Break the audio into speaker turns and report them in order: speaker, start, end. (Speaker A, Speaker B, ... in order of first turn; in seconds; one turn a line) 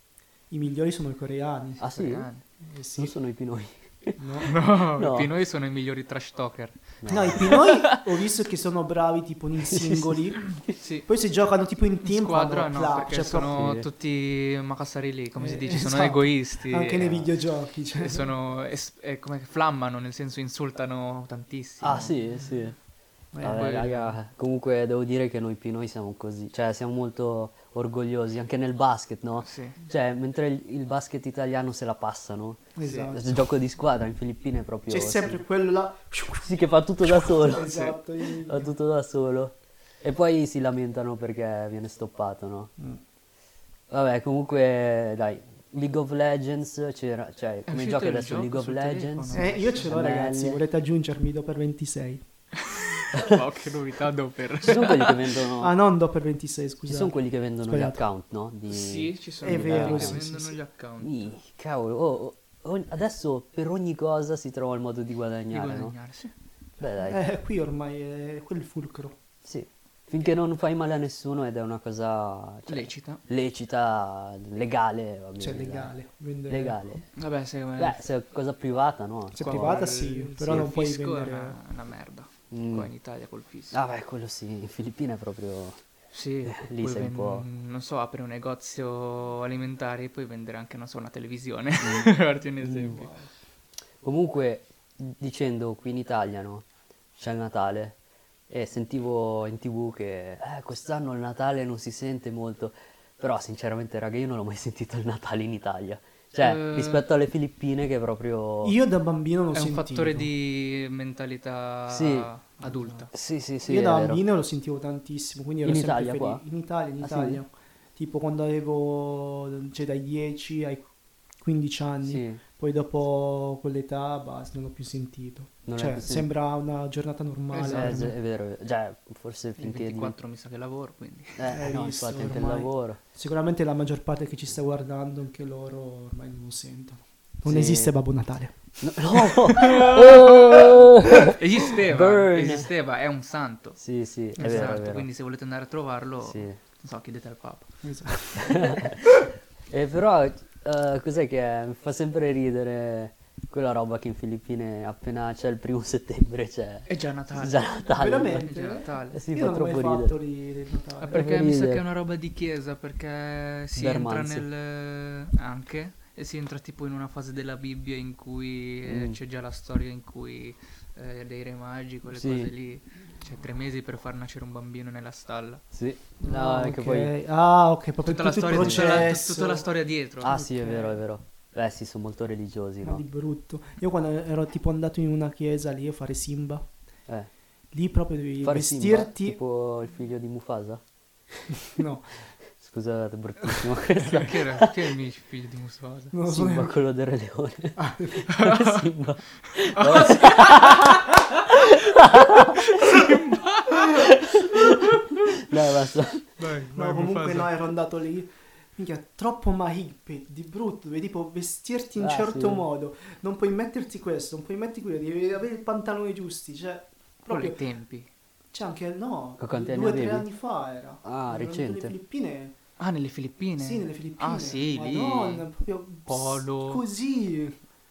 Speaker A: 0.5-1.8
Speaker B: 1.8-2.3
Speaker C: 1.9-2.4
Speaker A: 2.6-3.1
Speaker B: 2.9-4.1
Speaker A: 4.2-4.5
Speaker C: 4.4-8.0
Speaker B: 5.0-5.3
Speaker B: 7.0-7.6
Speaker A: 7.1-13.6
Speaker B: 9.7-10.2
Speaker C: 10.7-11.1
Speaker C: 12.0-17.2
Speaker B: 13.5-13.8
Speaker A: 15.4-18.3
Speaker C: 18.0-22.2
Speaker B: 21.8-22.8
Speaker A: 23.3-23.6
Speaker B: 23.4-35.4
Speaker C: 23.4-24.1
Speaker C: 29.4-29.8
Speaker A: 32.8-33.4
Speaker C: 32.8-33.1
Speaker A: 34.9-38.7
Speaker B: 36.4-42.7
Speaker B: 43.9-50.6
Speaker C: 47.7-49.9
Speaker A: 49.3-52.2
Speaker C: 52.5-55.2
Speaker B: 53.1-53.4
Speaker B: 54.6-55.7
Speaker A: 55.6-58.0
Speaker B: 56.9-60.2
Speaker C: 58.7-61.3
Speaker A: 59.4-60.5
Speaker B: 61.0-65.9
Speaker C: 65.5-66.3
Speaker B: 66.8-67.2
Speaker A: 67.0-69.2
Speaker B: 69.4-75.9
Speaker C: 72.7-73.2
Speaker A: 75.4-76.8
Speaker B: 76.5-77.0
Speaker C: 77.2-78.0
Speaker B: 77.8-79.9
Speaker A: 79.3-81.6
Speaker C: 79.4-83.8
Speaker B: 80.4-80.7
Speaker B: 82.5-82.9
Speaker B: 83.7-85.8
Speaker C: 86.1-93.1
Speaker B: 86.4-87.4
Speaker B: 91.8-92.1
Speaker B: 92.6-93.0
Speaker A: 92.9-93.2
Speaker B: 94.0-96.7
Speaker B: 97.2-98.0
Speaker B: 98.5-108.8
Speaker C: 106.4-107.0
Speaker A: 108.6-110.3
Speaker C: 109.5-113.1
Speaker B: 111.9-112.3
Speaker B: 113.1-114.2
Speaker A: 113.6-120.9
Speaker B: 115.6-116.4
Speaker B: 117.0-117.4
Speaker A: 121.4-128.1
Speaker B: 122.0-122.4
Speaker B: 125.7-126.3
Speaker C: 127.5-128.0
Speaker B: 127.7-130.1
Speaker C: 129.6-131.5
Speaker B: 131.4-133.0
Speaker A: 131.5-138.8
Speaker B: 137.4-137.9
Speaker B: 138.8-142.7
Speaker C: 139.5-143.8
Speaker B: 143.8-145.1
Speaker C: 144.4-147.7
Speaker A: 144.4-144.7
Speaker B: 146.2-146.6
Speaker A: 147.8-148.9
Speaker B: 148.4-149.0
Speaker B: 149.7-158.5
Speaker C: 156.9-159.2
Speaker A: 157.9-161.3
Speaker B: 159.1-160.1
Speaker C: 161.0-175.6
Speaker B: 161.1-161.8
Speaker B: 163.7-164.5
Speaker B: 168.8-169.2
Speaker B: 172.1-172.5
Speaker B: 175.7-177.1
Speaker A: 176.2-179.7
Speaker C: 178.0-180.3
Speaker B: 178.5-179.1
Speaker B: 180.2-183.0
Speaker A: 180.2-181.0
Speaker A: 182.8-186.7
Speaker A: 187.7-189.4
Speaker B: 188.4-190.8
Speaker A: 191.7-192.2
Speaker B: 192.6-194.7
Speaker C: 193.9-196.1
Speaker A: 196.1-196.7
Speaker B: 196.3-203.2
Speaker A: 197.8-198.3
Speaker C: 198.3-205.4
Speaker B: 203.9-206.3
Speaker C: 206.4-207.5
Speaker A: 206.7-217.6
Speaker B: 212.0-212.7
Speaker C: 217.3-218.1
Speaker A: 218.5-222.5
Speaker B: 219.4-220.2
Speaker B: 221.0-221.9
Speaker C: 222.8-225.5
Speaker A: 223.6-227.6
Speaker C: 226.1-226.8